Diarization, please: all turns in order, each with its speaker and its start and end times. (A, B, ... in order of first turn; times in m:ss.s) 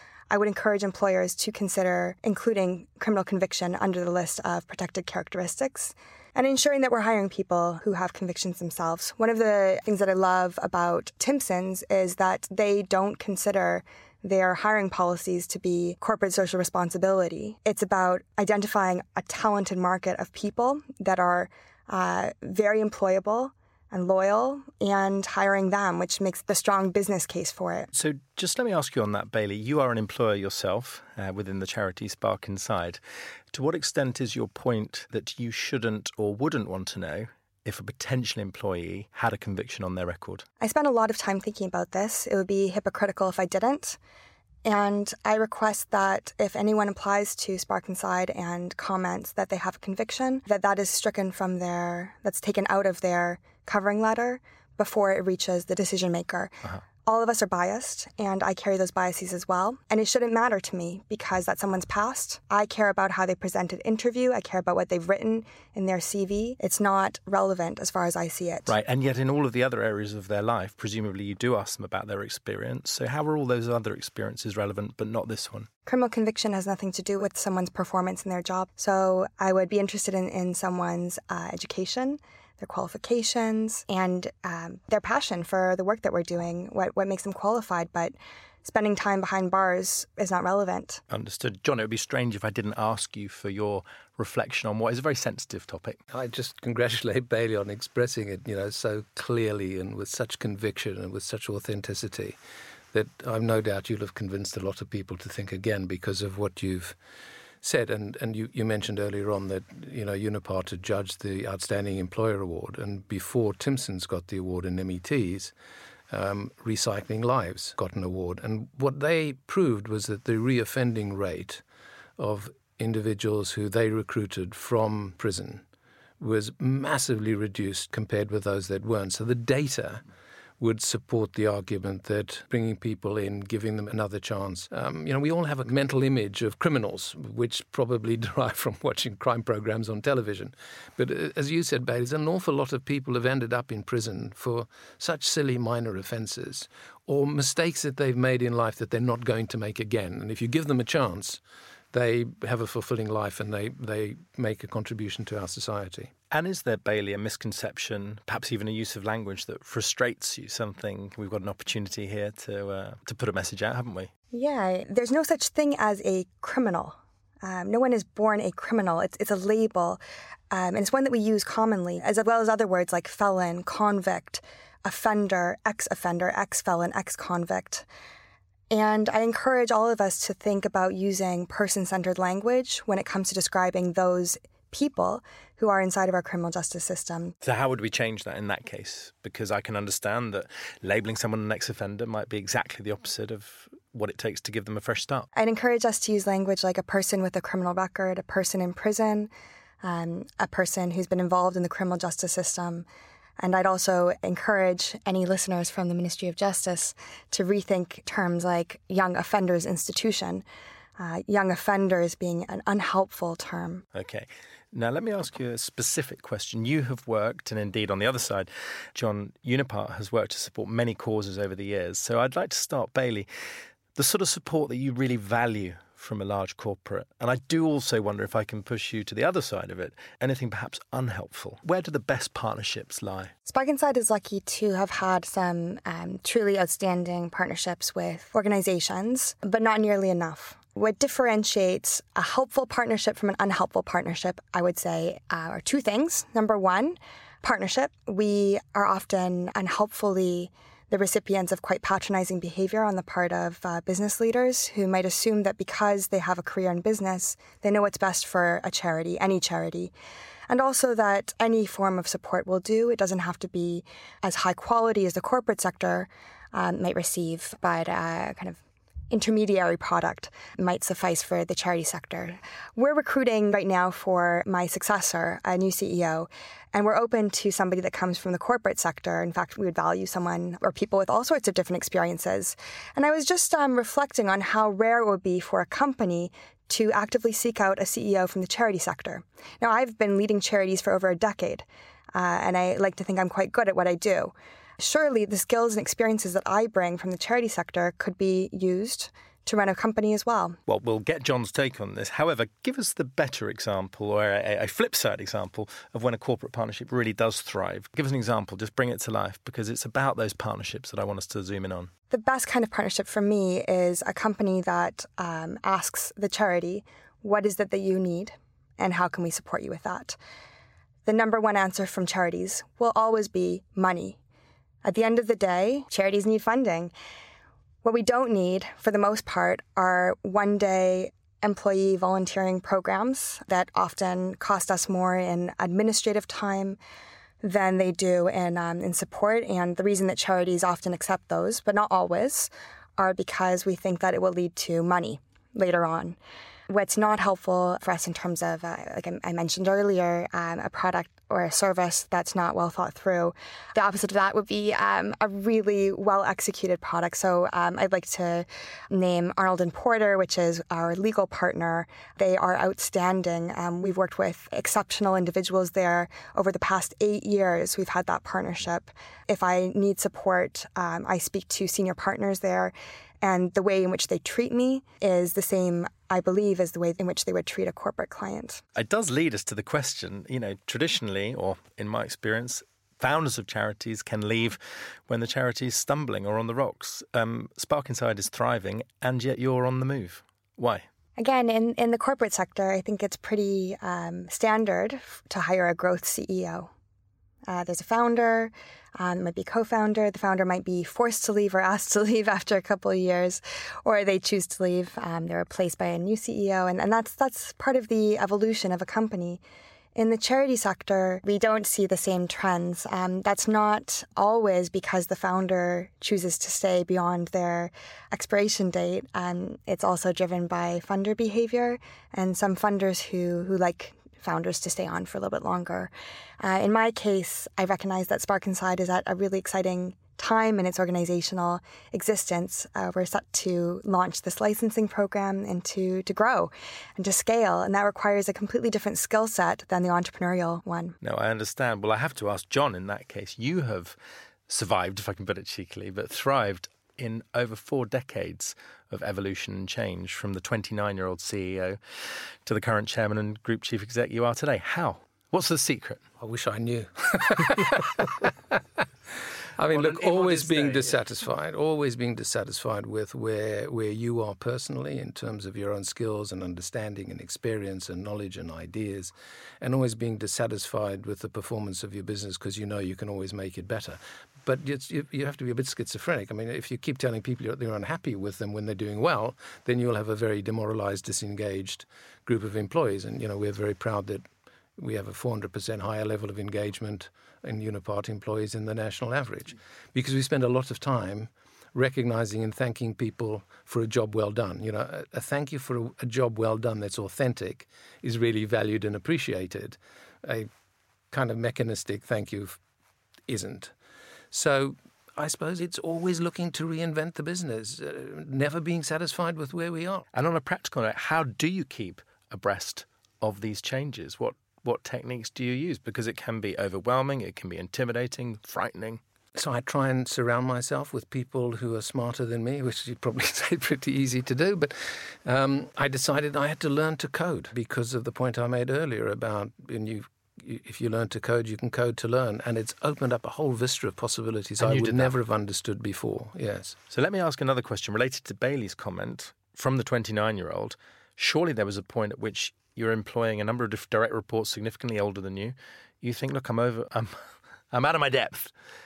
0:00.3-0:27.9 A
0:27.9-0:33.0 B
0:33.5-0:40.4 B
0:40.6-0:44.0 A
0:44.6-1:08.7 A
1:08.7-1:15.7 B
1:15.8-1:31.0 A
1:31.1-1:36.0 B
1:36.1-1:42.4 C
1:42.9-1:47.0 C
1:47.6-1:55.5 C
1:56.1-2:01.6 C
2:02.2-2:05.6 C
2:06.2-2:10.0 C
2:10.6-2:31.4 C
2:31.9-2:36.1 C
2:36.3-2:44.1 B
2:44.3-2:50.0 A
2:50.5-2:57.8 A
2:58.7-3:07.3 A
3:07.4-3:15.3 B
3:15.3-3:19.3 A
3:19.8-3:22.8 A
3:23.4-3:30.4 A
3:31.0-3:33.8 A
3:33.9-3:43.3 B
3:43.9-3:53.3 B
3:53.5-4:19.9 A
4:20.5-5:00.6 A
5:00.7-5:11.9 B
5:12.1-5:20.2 A
5:21.0-5:24.2 A
5:24.8-5:26.9 A
5:27.8-5:36.8 A
5:37.4-5:46.2 A
5:46.7-6:18.6 A
6:18.7-6:30.8 B
6:31.2-6:36.7 A
6:37.5-6:49.4 A
6:50.0-7:05.9 A
7:06.4-7:21.0 A
7:21.0-7:24.0 B
7:24.5-7:36.0 B
7:36.2-7:38.6 C
7:39.6-8:04.2 C
7:39.7-7:41.0 B
8:04.8-8:20.5 C
8:21.1-8:22.6 C
8:23.3-8:23.7 C
8:24.3-8:30.0 C
8:30.1-8:39.0 B
8:39.3-8:56.8 C
8:54.6-8:55.1 B
8:56.9-9:08.5 B